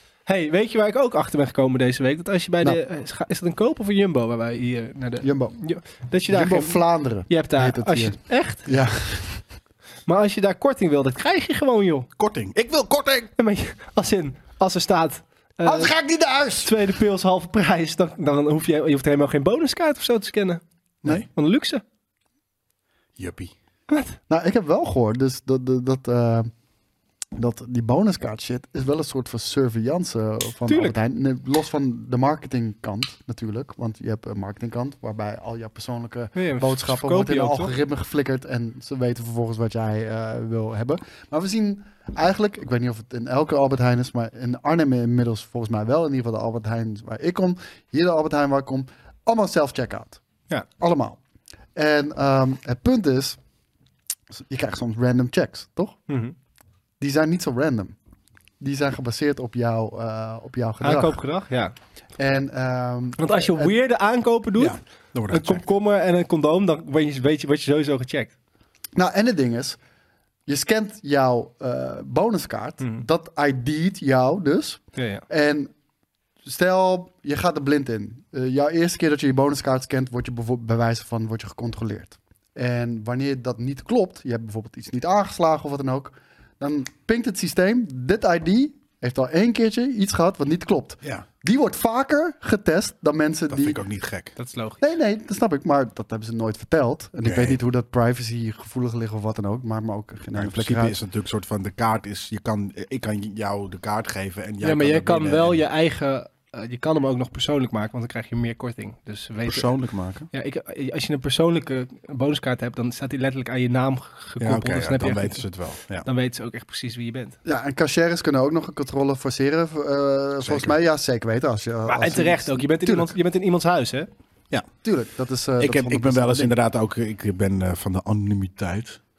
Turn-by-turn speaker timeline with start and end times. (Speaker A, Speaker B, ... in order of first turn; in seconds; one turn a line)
Speaker A: 0.2-8.7
Speaker B: 5.2-5.6
Speaker B: 6.3-9.4
Speaker A: 10.1-12.1
Speaker C: 12.2-13.3
Speaker A: 13.4-15.9
Speaker B: 15.6-16.7
Speaker A: 16.6-20.6
Speaker A: 21.2-21.8
Speaker C: 23.2-23.5
Speaker A: 23.9-24.2
Speaker B: 24.3-26.5
Speaker B: 27.4-50.2
Speaker A: 30.7-30.9
Speaker A: 36.3-37.7
Speaker B: 50.8-51.2
Speaker B: 51.8-53.4
Speaker B: 54.4-56.0
Speaker A: 56.1-56.3
Speaker B: 57.0-57.9
Speaker B: 58.6-61.2
Speaker A: 60.8-61.7
Speaker B: 62.2-63.7
Speaker A: 63.2-64.8
Speaker C: 64.6-65.6
Speaker A: 65.3-68.3
Speaker B: 69.0-69.8
Speaker B: 70.5-75.7
Speaker A: 74.9-75.2
Speaker B: 76.4-93.8
Speaker C: 93.5-94.3
Speaker A: 94.4-94.8
Speaker B: 94.8-101.0
Speaker C: 97.2-97.6
Speaker C: 100.3-105.6
Speaker A: 104.6-109.7
Speaker C: 109.5-110.3
Speaker A: 110.3-117.4
Speaker C: 114.4-116.0
Speaker B: 117.4-123.1
Speaker C: 120.4-120.7
Speaker A: 121.9-124.1
Speaker B: 124.8-126.5
Speaker C: 125.6-129.0